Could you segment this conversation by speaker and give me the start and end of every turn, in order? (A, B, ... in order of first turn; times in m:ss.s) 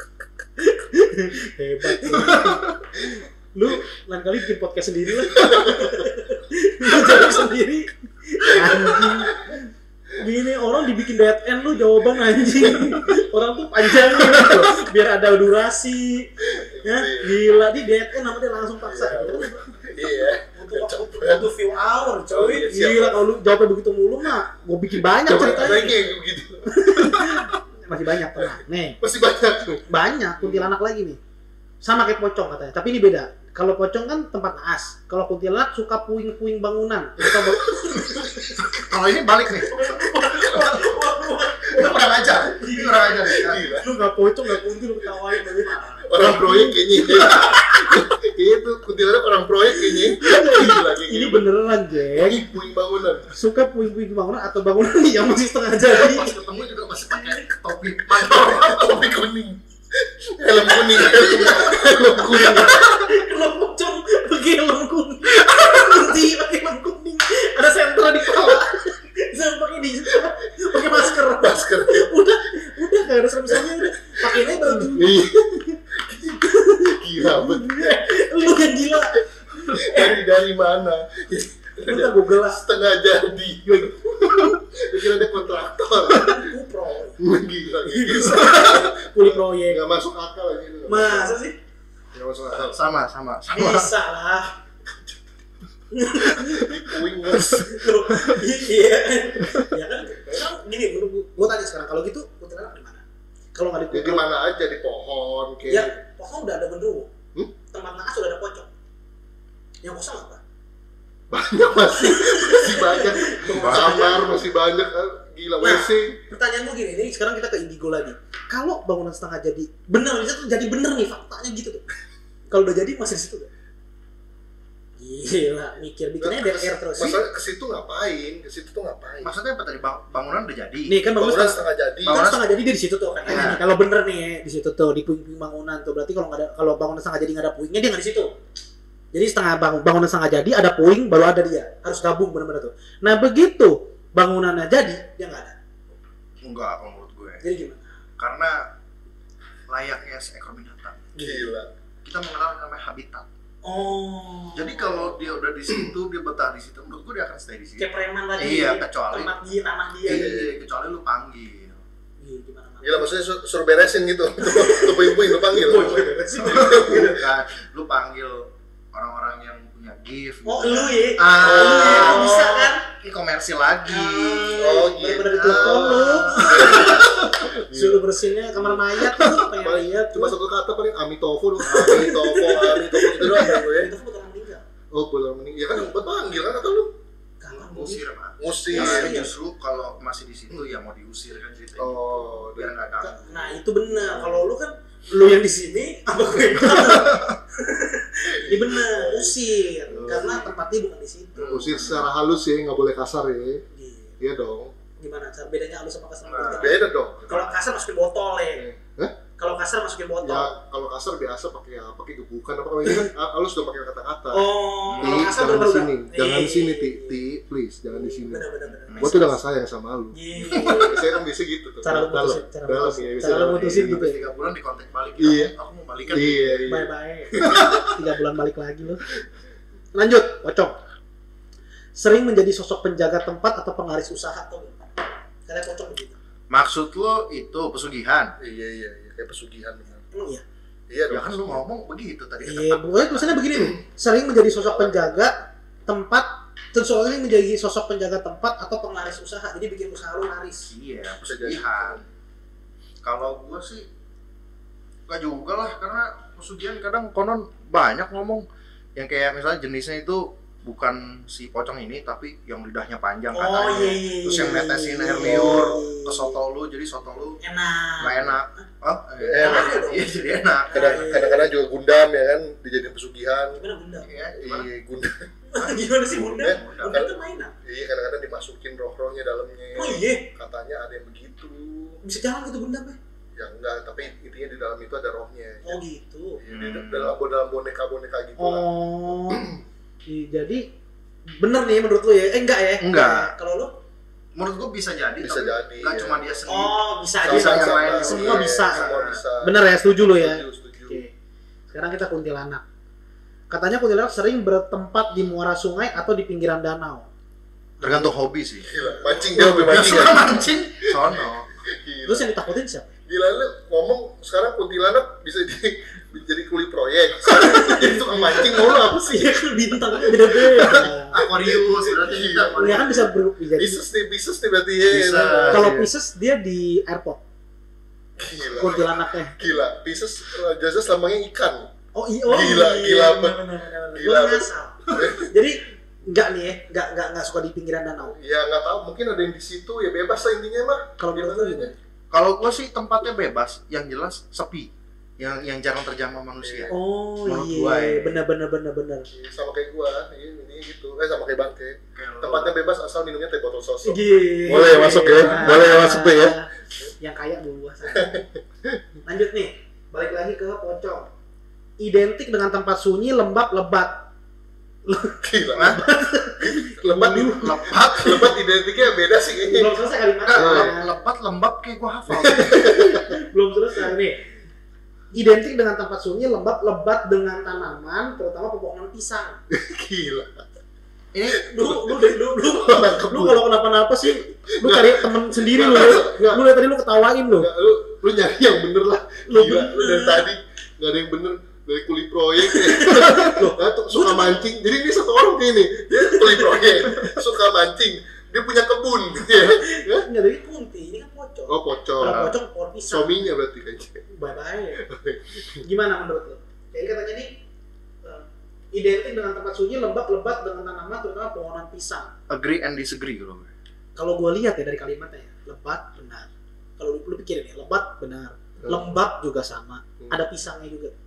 0:00.6-0:09.6 A
0:02.0-0:02.8 B
0:02.1-0:02.5 C
0:05.3-0:06.1 C
0:06.9-0:07.4 C
0:08.5-0:09.6 C
0:10.2-0:19.8 A
0:12.6-0:13.1 C
0:16.4-0:17.4 C
0:18.8-0:21.5 C
0:20.5-0:26.0 A
0:22.2-0:23.3 C
0:25.1-0:27.4 C
0:26.7-0:29.0 A
0:28.4-0:29.8 C
0:29.9-0:31.2 A
0:30.4-0:30.7 C
0:31.8-0:38.7 A
0:37.2-0:38.2 C
0:38.6-0:40.9 B
0:39.6-0:48.0 A
0:41.7-0:43.7 B
0:43.3-0:43.9 C
0:46.0-0:51.5 C
0:47.1-0:47.6 B
0:49.7-0:52.4 A
0:52.1-0:53.3 C
0:53.3-0:56.4 A
0:55.9-0:59.2 B
0:57.1-0:57.4 A
0:58.1-1:03.0 C
1:00.8-1:01.8 B
1:01.1-1:15.2 A
1:10.7-1:12.1 C
1:13.5-1:18.3 C
1:16.4-1:20.2 A
1:19.7-1:26.5 C
1:21.8-1:22.6 A
1:26.0-1:27.2 A
1:27.2-1:31.4 C
1:27.8-1:29.8 A
1:30.9-1:31.6 A
1:32.1-1:32.8 C
1:32.6-1:33.9 B
1:33.6-1:34.6 A
1:35.9-1:43.0 A
1:36.5-1:37.9 C
1:43.6-1:44.3 A
1:43.9-1:45.9 C
1:45.7-1:47.1 A
1:47.7-1:48.7 A
1:49.8-1:50.4 A
1:51.3-1:56.2 C
1:52.0-1:54.4 A
1:53.6-1:54.2 B
1:55.6-2:01.8 A
2:02.5-2:03.5 A
2:05.0-2:07.2 A
2:06.2-2:09.3 C
2:09.2-2:11.0 B
2:10.9-2:18.3 A
2:11.2-2:12.2 C
2:12.0-2:12.5 B
2:13.2-2:13.6 B
2:19.1-2:25.6 A
2:26.4-2:27.4 B
2:27.4-2:28.0 A
2:28.2-2:28.7 B
2:29.7-2:31.1 B
2:31.2-2:31.5 A
2:31.2-2:31.7 C
2:32.0-2:33.3 B
2:33.6-2:35.2 A
2:34.6-2:37.9 B
2:37.8-2:40.3 A
2:38.4-2:39.3 B
2:40.0-2:41.8 B
2:40.1-2:40.5 C
2:42.2-2:43.1 A
2:42.8-2:47.2 C
2:44.4-2:47.2 A
2:46.4-2:57.5 B
2:50.4-2:52.9 A
2:51.4-2:52.4 C
2:53.9-3:00.4 A
2:54.6-3:03.9 C
3:01.6-3:04.6 A
3:04.9-3:06.9 C
3:07.4-3:08.0 A
3:07.5-3:13.6 B
3:08.4-3:09.2 C
3:08.7-3:09.3 A
3:11.8-3:12.7 C
3:13.0-3:21.9 A
3:16.8-3:17.3 B
3:18.3-3:20.5 C
3:21.4-3:22.1 B
3:21.4-3:23.6 C
3:23.7-3:24.1 A
3:24.2-3:24.7 C
3:25.0-3:28.7 A
3:26.3-3:26.8 B
3:26.5-3:27.5 C
3:28.6-3:29.2 C
3:29.4-3:30.6 A
3:30.2-3:34.5 C
3:32.8-3:33.1 A
3:34.3-3:37.2 A
3:34.9-3:35.4 B
3:35.0-3:44.0 C
3:37.9-3:39.4 A
3:38.9-3:39.3 B
3:40.1-3:41.0 A
3:40.4-3:41.0 B
3:41.8-3:44.2 A
3:43.5-3:46.7 B
3:45.2-3:45.5 C
3:46.1-3:47.9 C
3:46.7-3:49.0 A
3:47.4-3:47.9 B
3:50.0-3:50.8 A
3:52.0-3:54.8 A
3:55.5-3:56.2 A
3:56.5-3:58.3 B
3:58.4-4:00.0 C
4:00.1-4:00.4 A
4:00.9-4:01.6 C
4:01.1-4:03.4 B
4:02.4-4:10.7 A
4:03.5-4:03.8 C
4:04.5-4:05.2 C
4:10.7-4:12.0 B
4:11.2-4:12.0 C
4:13.0-4:13.9 B
4:15.1-4:18.4 B
4:19.0-4:27.4 B
4:23.3-4:26.4 A
4:25.2-4:25.8 C
4:27.4-4:28.4 A
4:28.0-4:31.3 B
4:29.2-4:29.8 C
4:29.4-4:30.1 A
4:30.7-4:31.5 A
4:30.7-4:33.6 C
4:33.5-4:34.1 A
4:34.0-4:34.7 B
4:34.4-4:35.3 C
4:35.5-4:37.5 A
4:35.6-4:37.1 B
4:36.2-4:42.0 C
4:39.8-4:40.3 A
4:42.0-4:43.0 A
4:43.4-4:45.8 C
4:45.6-4:46.4 A
4:46.4-4:48.7 C
4:46.5-4:47.2 B
4:48.4-4:49.5 A
4:49.3-4:49.6 C
4:50.1-4:50.6 A
4:51.4-4:53.8 A
4:52.8-4:53.3 B
4:54.4-4:59.2 B
4:55.2-4:56.2 C
4:56.5-5:01.1 A
4:57.2-5:01.0 C
5:01.7-5:02.6 A
5:03.5-5:07.1 A
5:07.8-5:08.1 A
5:07.8-5:08.7 B
5:08.7-5:12.3 C
5:08.8-5:10.0 A
5:09.4-5:11.5 B
5:12.0-5:12.9 A
5:13.1-5:22.9 C
5:17.3-5:21.2 A
5:20.7-5:23.1 B
5:22.6-5:23.8 A
5:23.6-5:25.7 C
5:24.9-5:25.9 B
5:25.5-5:27.2 A
5:28.2-5:31.7 C
5:28.5-5:29.4 A
5:32.0-5:38.2 A
5:32.3-5:33.4 C
5:33.9-5:35.3 C
5:38.1-5:41.7 C
5:41.0-5:41.8 A
5:42.1-5:46.7 B
5:46.4-5:46.8 C
5:46.7-5:49.1 A
5:47.2-5:48.2 B
5:49.1-5:56.4 C
5:52.0-5:52.5 B
5:53.8-5:56.5 A
5:54.5-5:55.7 B
5:57.0-5:58.2 A
5:57.9-5:58.8 C
5:59.1-6:01.1 A
6:01.8-6:04.1 A
6:04.9-6:08.2 A
6:05.2-6:09.8 C
6:05.5-6:05.9 B
6:07.3-6:08.4 B
6:09.4-6:10.9 A
6:10.3-6:12.8 B
6:10.4-6:10.8 C
6:12.1-6:13.1 C
6:12.3-6:14.3 A
6:15.1-6:19.4 A
6:19.5-6:20.4 C
6:21.1-6:21.5 B
6:21.3-6:27.5 A
6:21.6-6:23.5 C
6:24.0-6:26.4 C
6:27.3-6:40.1 C
6:29.3-6:30.3 A
6:32.4-6:34.4 A
6:36.0-6:37.1 A
6:39.3-6:43.3 A
6:41.5-6:42.3 C
6:42.0-6:42.4 B
6:42.9-6:44.0 C
6:44.1-6:44.8 A
6:44.8-6:45.6 C
6:45.6-6:47.4 A
6:48.0-6:52.1 A
6:52.3-6:53.5 B
6:54.0-7:00.9 A
6:58.6-6:58.9 C